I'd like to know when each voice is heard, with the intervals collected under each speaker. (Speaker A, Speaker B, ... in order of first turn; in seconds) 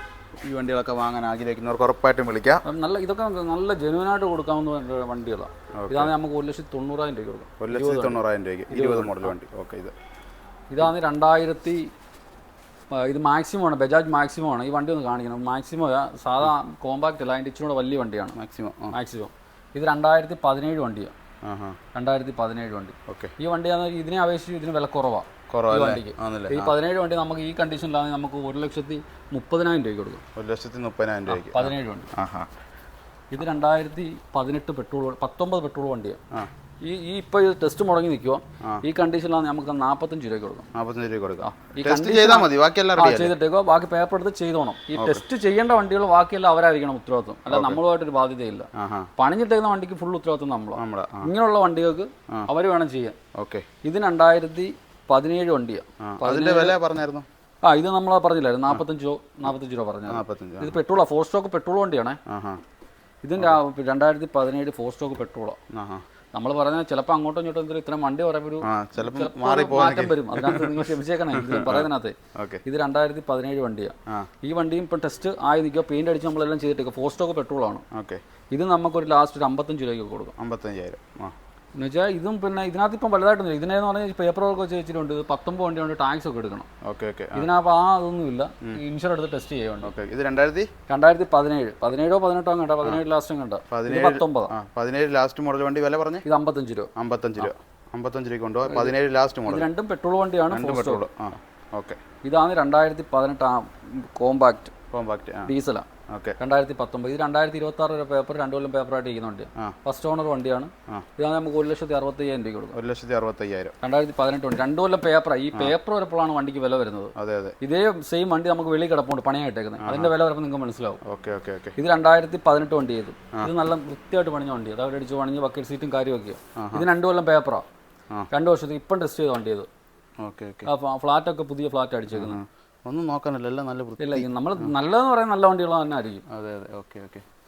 Speaker A: 0.4-2.6, 5.8-6.1, 7.6-9.9, 18.4-18.9, 21.4-21.8, 23.1-23.3, 25.5-26.7, 30.4-32.5, 40.7-43.4, 45.0-45.2, 47.5-47.8, 48.8-49.1, 50.8-51.3, 53.4-53.7, 56.0-57.3, 60.1-60.8, 62.3-62.6, 65.7-66.0, 68.6-70.8, 71.3-72.6, 77.9-78.2, 80.4-81.3, 86.8-87.5, 89.8-90.7, 93.7-96.3, 97.0-99.7, 100.5-102.0, 104.9-105.5, 106.1-106.4, 112.7-113.7, 117.2-117.5, 119.8-120.1, 121.0-121.8, 126.6-126.9, 130.2-130.7, 132.1-134.7, 136.3-137.2
Speaker B: 2.6-9.3, 10.7-11.9, 12.9-18.4, 18.9-21.1, 21.9-30.2, 31.3-32.1, 33.3-36.2, 36.8-40.7, 41.4-53.2, 53.8-56.8, 57.6-62.2, 63.2-65.6, 66.3-77.8, 78.5-80.3, 81.8-86.7, 87.3-89.9, 90.9-94.5, 96.2-97.5, 98.7-98.9, 99.5-101.0, 102.2-104.7, 105.5-105.9, 106.4-112.8, 113.8-121.0, 121.8-127.7, 128.3-129.7, 130.7-132.4, 134.0-136.2